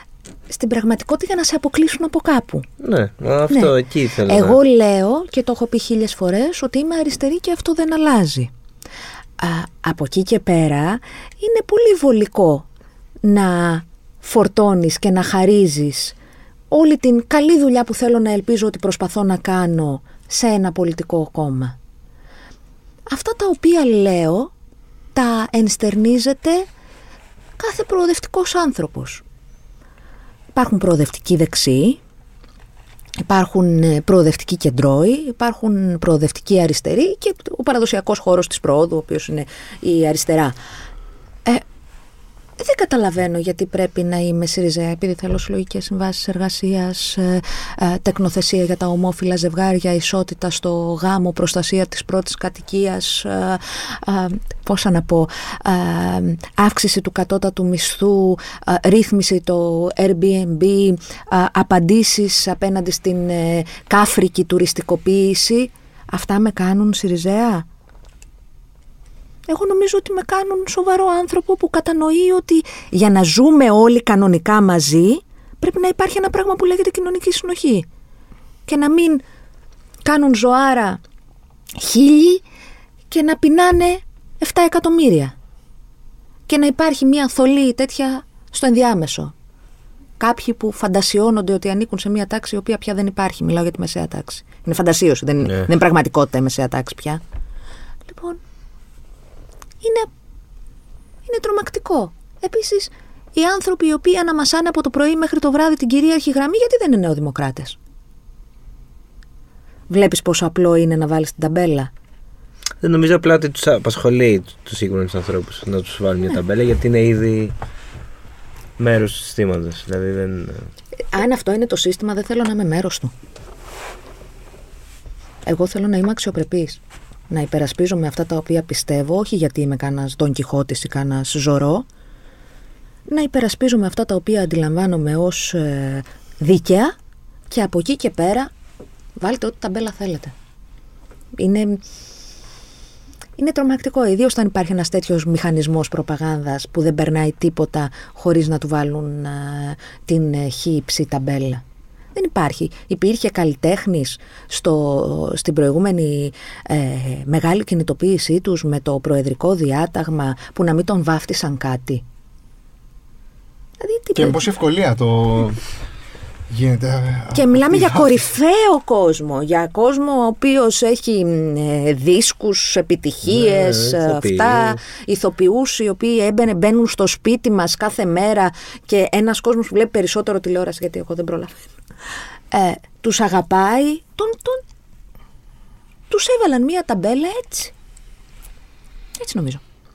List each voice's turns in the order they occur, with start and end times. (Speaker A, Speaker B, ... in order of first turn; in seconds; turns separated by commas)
Speaker A: 0.5-2.6, Speaker B: 2.8-4.6, Speaker A: 4.2-8.5, Speaker A: 9.4-12.7, Speaker A: 13.2-16.1, Speaker A: 16.7-21.8, Speaker A: 23.1-24.5, Speaker A: 25.1-26.7, Speaker A: 27.6-29.2, Speaker A: 30.5-32.0, Speaker A: 33.2-40.5, Speaker A: 42.6-67.7, Speaker A: 69.5-77.8, Speaker A: 78.7-79.2, Speaker A: 80.0-81.0, Speaker A: 81.8-82.4, Speaker A: 83.1-85.3, Speaker A: 86.5-89.3, Speaker A: 90.2-97.2, Speaker A: 98.1-98.4, Speaker A: 99.8-100.1, Speaker A: 101.2-107.8, Speaker A: 109.9-111.9, Speaker B: 112.8-117.5, Speaker B: 118.8-120.7, Speaker A: 121.1-123.1, Speaker A: 125.4-131.8, Speaker A: 133.1-136.9, Speaker A: 137.5-138.5, Speaker A: 139.2-140.3, Speaker A: 141.4-141.8, Speaker A: 143.4-151.6, Speaker A: 152.1-162.0, Speaker A: 163.8-164.4, Speaker C: 164.1-165.6, Speaker C: 166.5-168.2, Speaker A: 167.3-181.6, Speaker B: 173.2-174.8, Speaker A: 182.5-184.6, Speaker A: 186.1-187.7, Speaker A: 189.2-189.6